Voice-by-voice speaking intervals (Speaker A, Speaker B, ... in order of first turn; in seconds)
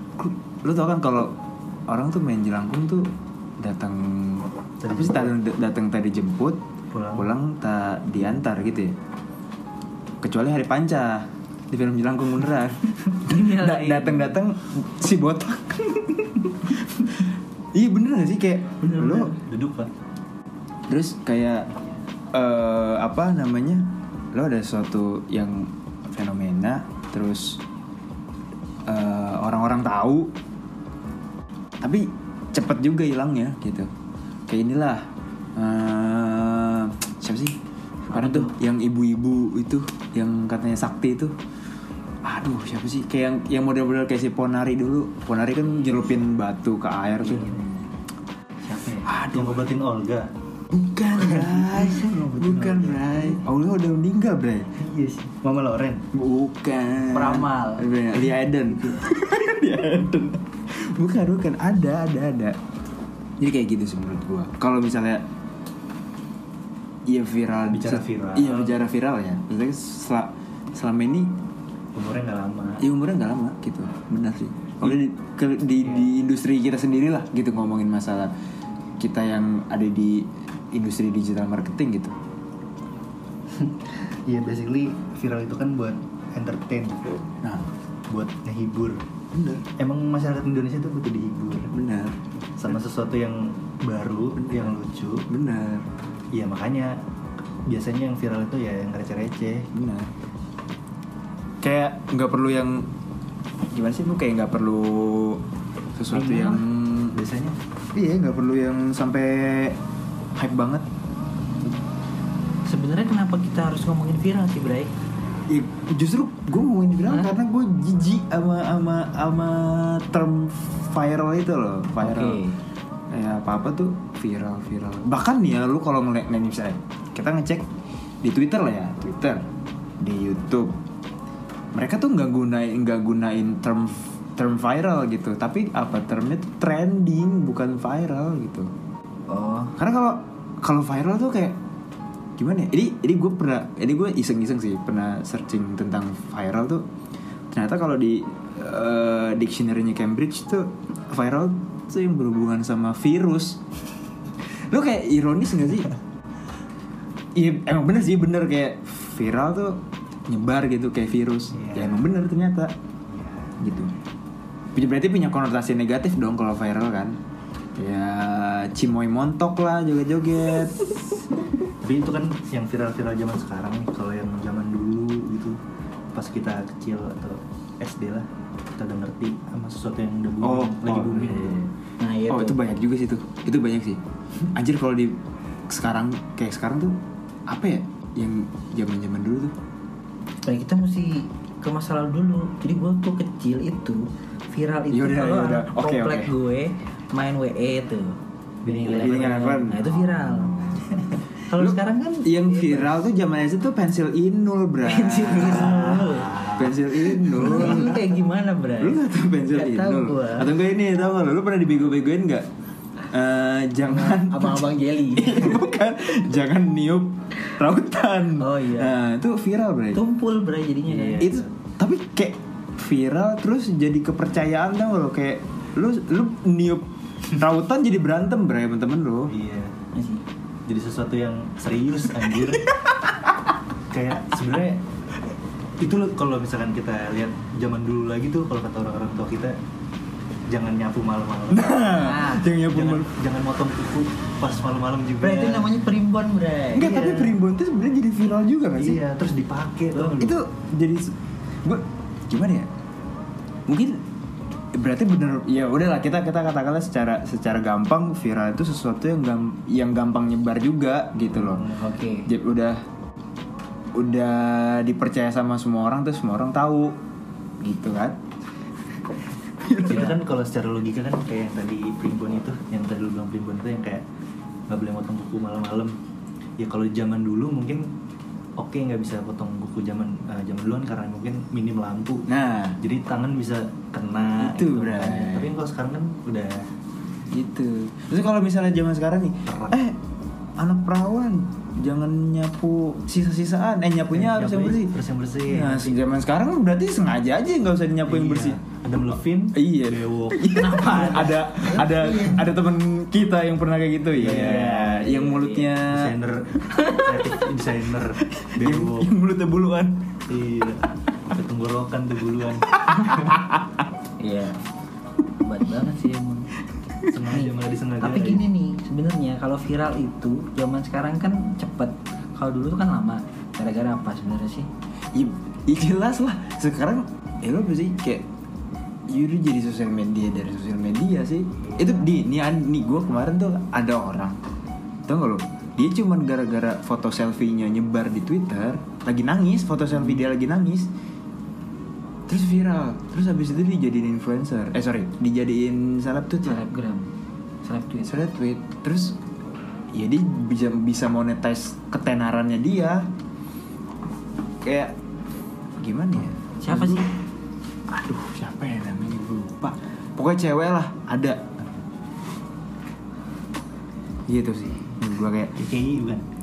Speaker A: 0.2-1.3, 1.9-3.1, 3.6-6.6, 7.1-8.9, 10.2-19.3, 20.9-21.7, 22.3-27.6, 28.9-30.3, 31.8-33.9, 34.5-37.6, 38.1-41.3, 42.2-47.5, 49.0-49.6, 50.7-54.7, 56.1-62.5, 63.4-65.2, 67.1-71.3, 72.8-78.3, 79.0-82.1, 89.3-89.6, 91.7-92.2, 94.4-94.7, 95.3-95.9, 99.7-100.1, 101.6-102.9, 103.7-105.4, 106.0-107.2, 107.9-109.8, 110.3-110.8, 115.5-122.4, 123.1-127.7, 128.2-129.4, 130.0-130.7, 131.7-138.7, 139.8-141.6, 142.4-146.8, 147.5-153.6, 154.7-155.9, 157.3-162.7, 163.6-163.9, 164.7-167.2, 167.8-171.0, 180.4-181.6, 182.3-184.0, 184.5-189.5, 194.9-196.3, 199.0-199.9, 201.5-208.1, 208.8-212.4, 213.1-220.0, 221.2-229.3, 232.7-233.3, 241.5-243.1, 246.7-249.0, 250.2-252.7, 253.7-254.0, 254.7-261.7, 262.2-262.8, 263.9-266.9, 267.6-268.2, 269.6-270.2, 282.3-282.8, 284.4-285.5, 287.3-290.0, 290.6-294.9, 295.5-298.6, 299.5-306.1, 308.3-310.2, 312.8-313.6, 325.1-328.2, 329.1-334.4, 335.1-340.9, 342.3-346.6, 348.0-349.2, 349.9-353.1, 354.6-354.9, 355.8-357.1, 357.9-361.4, 364.3-365.5
Speaker B: 4.8-5.3, 6.9-7.3, 18.8-19.9, 48.6-50.3, 51.2-53.4, 54.8-56.0, 67.7-68.7, 71.9-72.8, 83.5-87.2, 88.1-89.0, 89.8-91.7, 92.6-95.2, 96.3-96.9, 97.7-99.7, 107.1-107.6, 161.5-162.1, 163.2-163.5, 171.8-175.6, 176.1-181.7, 198.6-199.6, 205.4-207.9, 220.9-221.5, 229.3-229.8, 230.7-232.7, 233.9-234.8, 235.8-239.6, 240.5-241.7, 242.6-245.8, 248.8-250.4, 261.3-261.9, 269.9-274.0, 274.7-275.9, 276.6-277.9, 278.6-282.3, 282.8-286.7, 289.5-289.8, 294.1-295.9, 298.0-301.3, 304.1-305.1, 305.9-309.1, 310.3-313.4, 317.1-318.5, 365.6-366.2
Speaker C: 13.2-14.4, 38.1-38.5, 47.2-47.8, 57.1-57.9, 106.1-106.6, 112.7-114.9, 122.0-122.6, 139.3-139.8, 182.0-182.6, 190.4-200.6, 201.5-202.9, 204.8-206.5, 207.3-210.5, 213.9-215.6, 218.4-219.0, 219.9-221.3, 229.9-230.2, 242.0-242.5, 245.2-247.3, 261.8-262.3, 300.5-302.4, 304.9-305.7, 314.2-314.6, 315.4-316.5, 317.3-324.7, 346.4-347.1, 347.6-348.1, 356.6-357.1